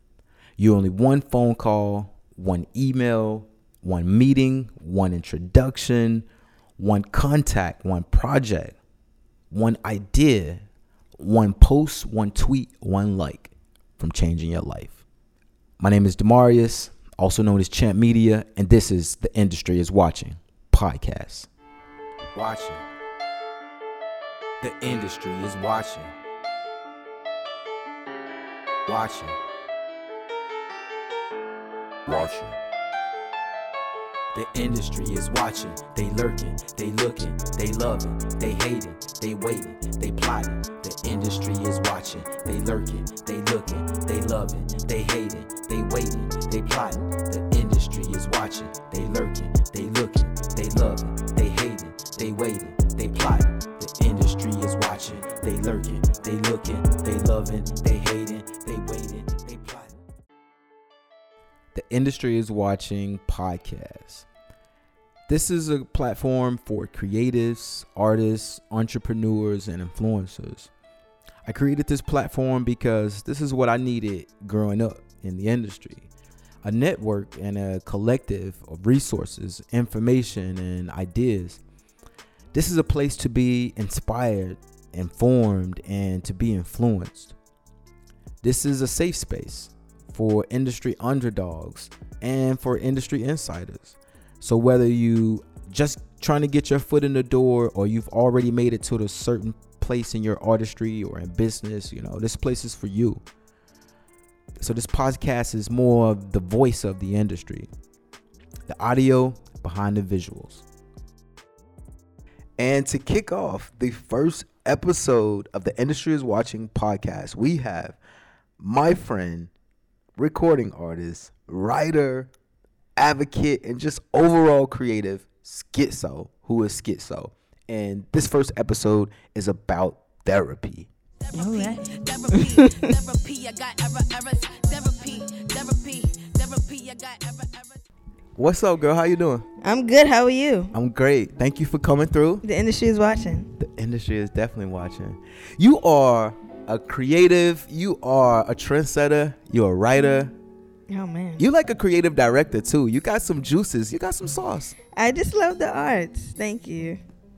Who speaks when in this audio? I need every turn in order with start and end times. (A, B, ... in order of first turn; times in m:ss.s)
0:00.6-0:06.3 A
0:06.8-0:08.8 A
0:09.5-0:10.6 A
0:11.2-0:15.0 A
0:15.8-0:21.5 A
0:22.3-0:22.8 A
0:24.6-0:26.1 A
0:28.9-0:29.4 A
0:32.1-0:32.6 A
0:34.3-0:59.9 A
1:01.7-1:04.3 A
1:05.3-1:10.7 A
1:11.5-1:16.1 A
1:16.6-1:21.6 A
1:22.5-1:27.4 A
1:28.4-1:43.2 A
1:44.6-1:47.7 A
1:48.7-1:50.6 A
1:52.6-1:58.0 A
1:58.6-1:59.5 A
2:00.2-2:02.3 A
2:03.0-2:10.9 A
2:11.2-2:17.8 B
2:11.4-2:12.7 C
2:18.4-2:19.5 A
2:19.6-2:20.7 C
2:20.7-2:22.4 A
2:22.4-2:23.5 C
2:23.6-2:30.3 A
2:30.9-2:31.4 C
2:31.4-2:34.8 A
2:34.9-2:37.0 C